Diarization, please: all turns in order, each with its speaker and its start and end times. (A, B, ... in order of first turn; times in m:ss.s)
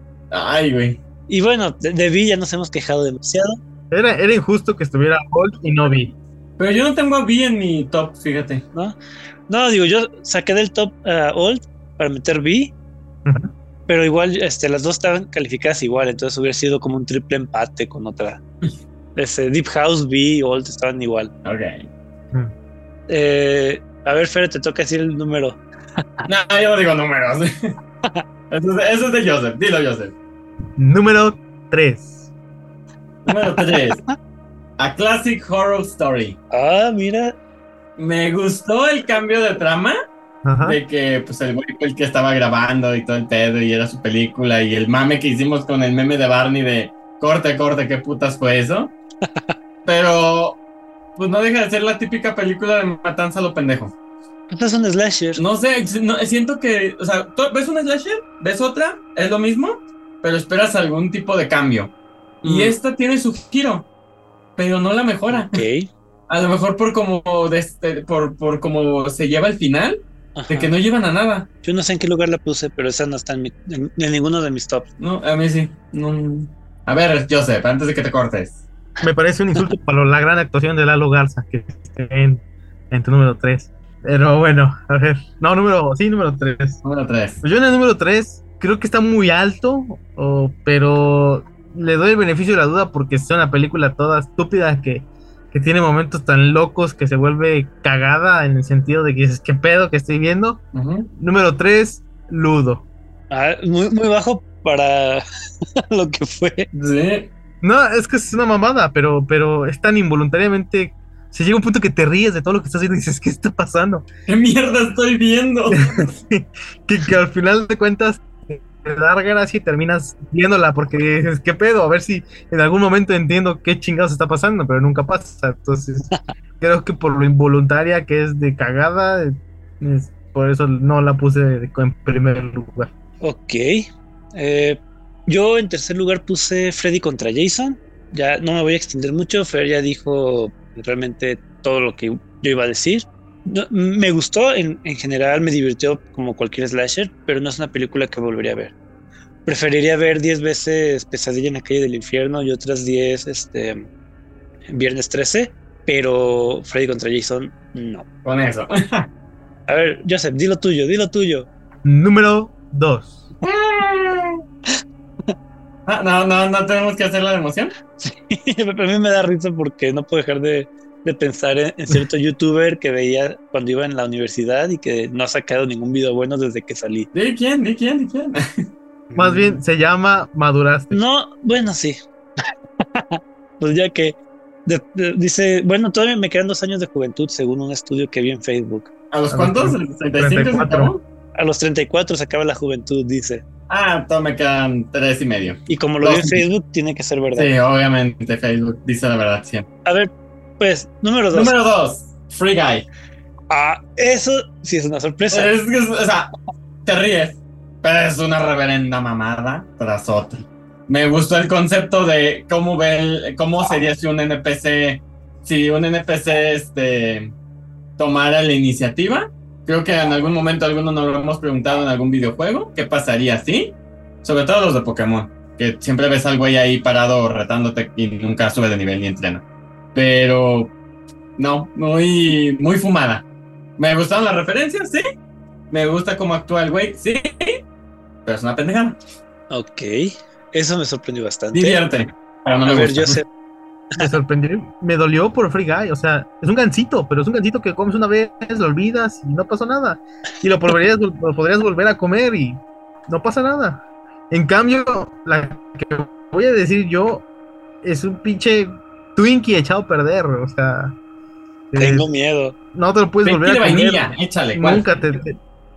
0:00.3-0:01.0 A
0:01.3-0:03.6 B
0:03.9-0:06.1 C
0:06.6-0:08.6 A
0:09.5-0:12.7 B
0:13.2-0:13.5 C
0:13.9-0:18.4 B
0:19.2-0:21.3 B
0:21.4-0:21.9 A
0:23.1-0:25.6 B
0:26.3-0:27.5 A
0:28.5-0:30.2 A
0:30.8-0:32.3 C
0:33.2-0:34.0 A
0:33.7-0:34.1 B
0:34.8-0:36.4 A
0:36.5-0:37.4 B
0:38.0-0:40.0 A
0:40.4-0:40.8 C
0:40.6-0:48.9 A
0:49.8-0:50.6 A
0:51.1-0:53.9 A
0:54.5-0:55.4 B
0:55.4-1:03.9 A
1:02.4-1:02.8 B
1:04.6-1:05.6 A
1:05.3-1:05.9 B
1:06.3-1:11.5 A
1:10.4-1:10.7 B
1:11.6-1:14.9 B
1:15.0-1:18.6 A
1:19.0-1:26.8 C
1:26.8-1:27.4 A
1:27.4-1:40.6 C
1:40.7-1:41.1 A
1:41.1-1:42.8 C
1:43.3-1:45.2 B
1:45.8-1:46.7 B
1:46.7-1:47.3 A
1:47.6-1:54.0 C
1:54.3-1:56.0 A
1:55.7-2:06.1 C
2:06.6-2:12.9 C
2:13.2-2:28.7 B
2:29.4-2:33.8 B
2:34.7-2:38.0 B
2:38.2-2:39.0 A
2:39.7-2:41.5 B
2:41.8-2:43.2 C
2:43.4-2:44.4 A
2:45.9-2:47.7 A
2:48.0-2:57.1 B
2:57.1-2:58.6 A
2:59.1-3:01.0 C
2:59.2-2:59.4 B
3:00.9-3:02.0 B
3:02.8-3:08.9 B
3:09.1-3:11.0 A
3:09.3-3:11.0 C
3:11.3-3:13.4 B
3:13.7-3:16.4 A
3:15.7-3:17.5 B
3:17.4-3:19.6 A
3:19.8-3:21.5 B
3:21.3-3:22.8 A
3:23.5-3:25.5 B
3:25.3-3:26.3 A
3:26.8-3:37.3 A
3:38.0-3:49.4 A
3:49.9-3:50.7 A
3:51.4-3:53.2 A
3:53.8-3:55.0 A
3:55.7-3:57.6 A
3:58.2-3:59.0 A
3:59.5-4:01.8 B
4:01.5-4:03.2 A
4:02.6-4:03.3 B
4:04.0-4:17.2 C
4:17.8-4:21.0 C
4:21.7-4:22.1 C
4:21.8-4:22.5 B
4:22.7-4:25.4 C
4:23.2-4:24.8 A